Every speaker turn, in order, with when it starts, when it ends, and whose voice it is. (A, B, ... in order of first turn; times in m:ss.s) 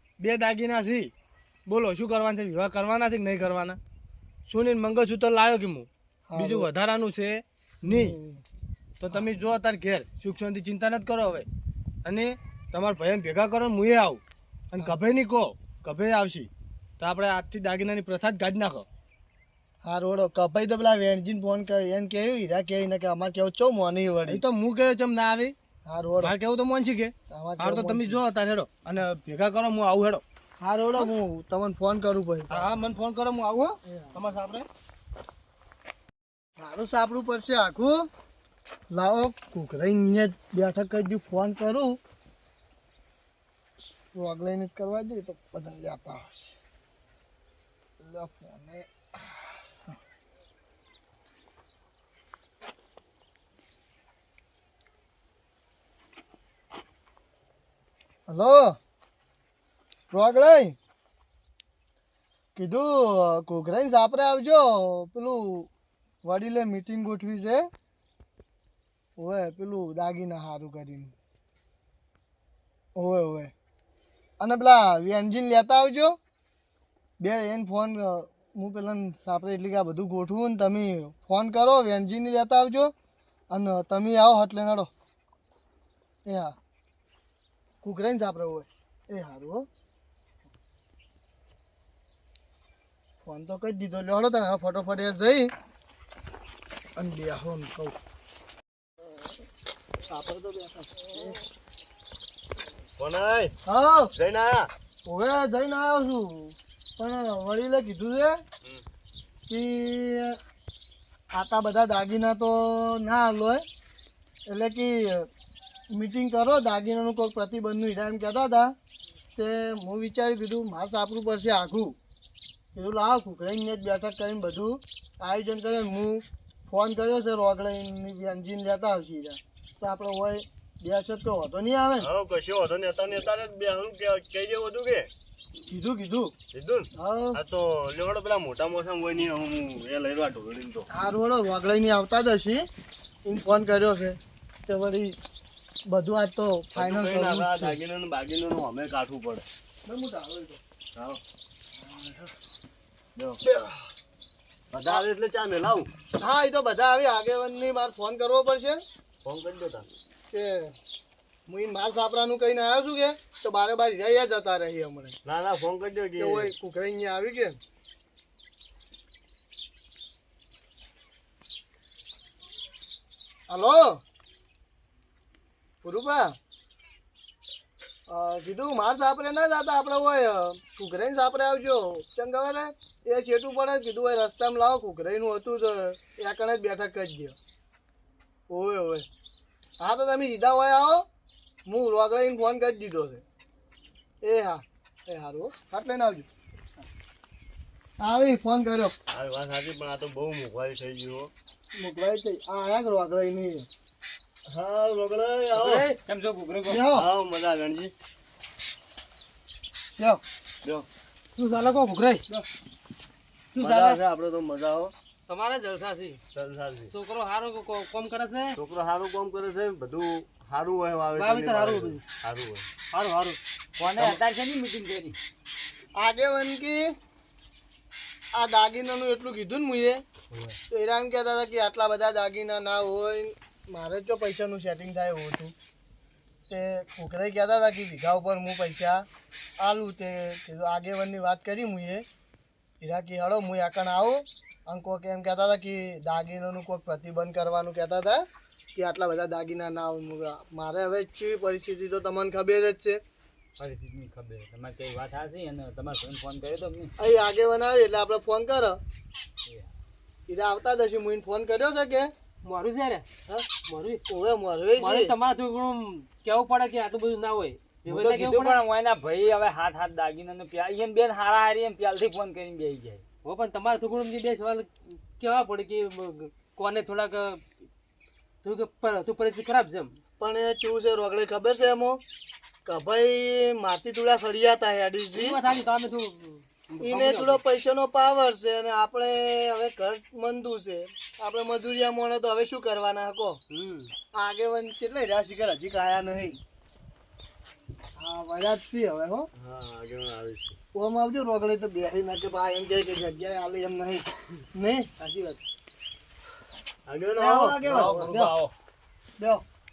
0:00.2-0:01.1 A
0:01.7-0:03.8 A
0:04.5-0:08.2 A
0:06.3-0:06.7 B
0:07.8-0:08.4 B
0:09.0-0:11.4 A
0:12.0-0:14.2 A
0:14.7-0:18.8 A
0:19.8-0:24.4 B
0:24.3-0:25.5 A
0:25.8-0:26.3 B
0:26.2-0:30.2 A
0:27.3-0:28.2 B
0:30.6-0:32.7 B
0:32.5-0:34.7 A
0:33.8-0:34.2 B
0:36.6-0:38.1 B
0:38.9-0:42.0 B
0:43.8-0:46.6 B
0:48.0-0:50.0 B
0:58.3-0:58.8 B
1:00.1-1:00.8 B
1:02.5-1:05.7 B
1:06.2-1:07.7 B
1:09.2-1:11.1 B
1:13.0-1:13.5 B
1:14.4-1:16.2 B
1:17.2-1:22.9 B
1:23.5-1:24.9 B
1:26.2-1:26.5 B
1:27.8-1:29.6 B
1:33.2-1:35.5 B
1:37.0-1:38.0 B
1:40.0-1:41.4 B
1:43.0-1:43.6 C
1:43.6-1:44.1 B
1:44.1-1:44.7 C
1:45.0-1:48.4 B
1:49.5-1:50.4 B
1:51.3-1:53.6 B
1:54.5-1:55.3 B
1:55.9-1:58.7 B
1:59.3-2:02.0 B
2:02.7-2:12.1 B
2:12.0-2:15.1 C
2:15.7-2:16.3 B
2:16.5-2:20.9 C
2:16.9-2:17.4 B
2:20.9-2:22.7 B
2:23.2-2:25.2 B
2:25.9-2:27.8 B
2:26.7-2:29.4 C
2:29.8-2:30.6 B
2:30.9-2:31.2 C
2:31.7-2:32.3 B
2:33.4-2:33.9 B
2:34.7-2:35.9 C
2:36.1-2:38.8 B
2:39.2-2:39.9 C
2:40.3-2:40.7 B
2:41.5-2:45.2 B
2:45.2-2:46.5 C
2:46.2-2:47.6 B
2:53.5-2:54.0 B
2:55.8-2:56.4 B
2:58.1-3:07.4 B
3:08.5-3:09.1 B
3:09.8-3:11.1 B
3:11.6-3:13.2 B
3:14.2-3:16.3 B
3:18.0-3:18.9 B
3:19.1-3:21.3 C
3:21.8-3:23.7 B
3:24.5-3:25.9 C
3:25.5-3:26.0 D
3:26.0-3:26.8 E
3:26.6-3:27.1 B
3:26.9-3:27.9 C
3:31.4-3:32.2 D
3:33.5-3:34.0 D
3:33.6-3:34.9 C
3:35.3-3:36.2 D
3:36.3-3:36.9 C
3:36.9-3:38.6 D
3:38.6-3:42.7 C
3:41.1-3:42.0 D
3:42.9-3:43.4 D
3:43.8-3:45.2 E
3:46.0-3:46.9 B
3:48.3-3:50.0 B
3:50.7-3:55.5 B
3:56.5-3:59.0 B
3:59.6-4:02.0 B
4:02.8-4:08.2 B
4:08.7-4:13.0 B
4:13.6-4:16.9 E
4:17.0-4:18.8 B
4:20.3-4:22.1 B
4:22.4-4:24.0 D
4:24.1-4:25.1 B
4:24.8-4:28.6 D
4:27.8-4:33.0 E
4:33.2-4:37.4 D
4:38.4-4:40.0 D
4:40.2-4:42.0 B
4:42.6-4:45.4 B
4:45.3-4:47.4 D
4:46.8-4:53.4 B
4:53.5-4:53.9 D
4:54.1-4:56.4 B
4:58.0-4:59.3 B
4:59.4-5:00.6 C
5:00.7-5:04.9 B
5:05.0-5:05.4 D
5:06.9-5:08.1 C
5:07.1-5:08.0 B
5:07.7-5:08.5 E
5:09.2-5:09.4 B